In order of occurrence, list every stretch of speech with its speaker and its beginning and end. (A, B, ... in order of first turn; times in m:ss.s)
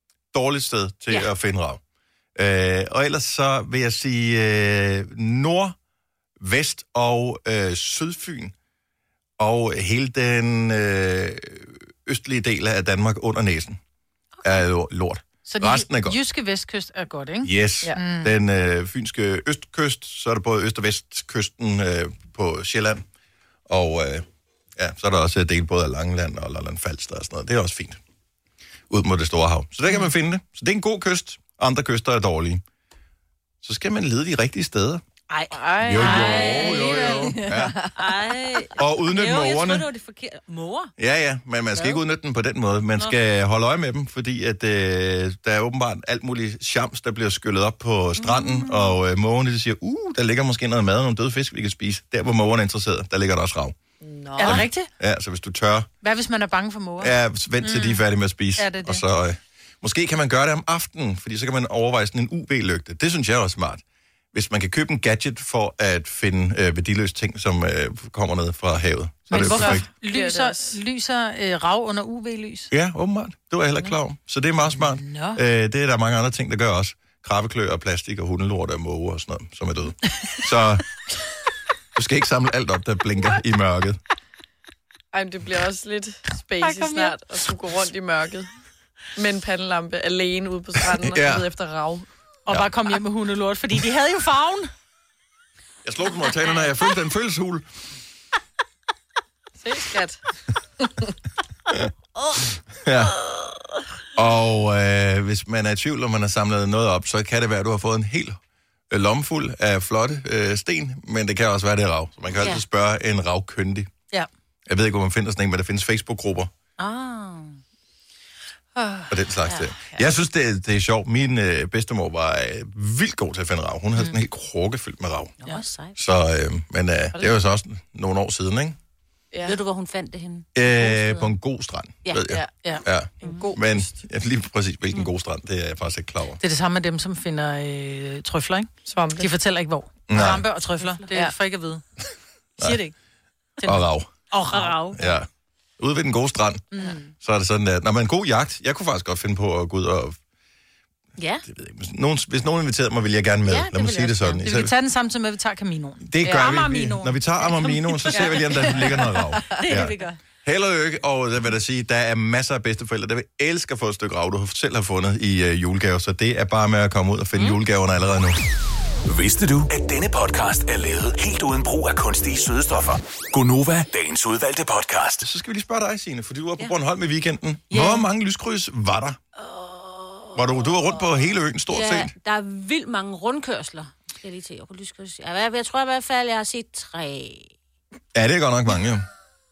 0:00.3-0:01.8 A
0:02.4-0:05.7 A
0:06.4-0:08.5 A
0:09.4-0:13.8 A
0:14.4-0:16.2 A
0:15.4-0:18.3 B
0:17.4-0:23.0 A
0:23.7-0:24.2 A
0:24.8-0:28.0 A
0:28.9-0:32.6 A
0:33.6-0:35.0 A
0:35.3-0:40.9 C
0:35.5-0:37.9 D
0:35.8-0:37.8 A
0:38.8-0:39.8 A
0:41.0-0:53.8 A
0:48.2-0:48.9 C
0:54.0-0:54.7 D
0:54.4-0:54.9 B
0:54.4-0:55.9 A
0:56.0-0:58.0 B
0:57.0-1:09.8 A
0:58.6-0:59.0 B
1:09.3-1:12.7 B
1:09.3-1:10.8 D
1:12.7-1:20.8 A
1:14.7-1:15.4 B
1:21.9-1:24.0 A
1:25.1-1:28.5 D
1:26.6-1:27.1 B
1:29.2-1:32.0 D
1:31.0-1:31.4 A
1:32.4-1:34.7 B
1:35.8-1:37.6 A
1:39.6-1:40.2 D
1:40.8-1:41.1 D
1:42.8-1:43.2 A
1:44.1-1:48.4 A
1:48.9-1:53.9 A
1:54.7-1:56.5 A
1:56.8-1:57.6 C
1:58.8-1:59.1 B
1:59.1-2:05.3 A
2:05.4-2:06.0 C
2:05.9-2:08.8 A
2:09.3-2:09.6 D
2:09.4-2:11.3 C
2:10.5-2:16.4 A
2:13.2-2:13.9 D
2:16.4-2:21.8 B
2:18.8-2:19.3 D
2:20.1-2:20.4 A
2:20.8-2:21.0 C
2:22.6-2:22.9 B
2:23.6-2:24.9 B
2:23.6-2:24.1 A
2:24.5-2:25.1 C
2:24.9-2:25.3 A
2:25.8-2:26.6 A
2:26.7-2:27.1 B
2:27.2-2:30.2 A
2:31.2-2:31.4 C
2:31.4-2:34.7 A
2:33.4-2:34.4 C
2:34.4-2:38.3 B
2:36.0-2:48.4 A
2:38.1-2:38.4 C
2:39.6-2:40.1 C
2:49.1-2:55.2 E
2:55.2-2:59.2 A
2:57.7-2:58.0 B
2:59.4-3:00.8 C
3:00.3-3:02.1 A
3:01.7-3:07.5 C
3:08.1-3:09.0 A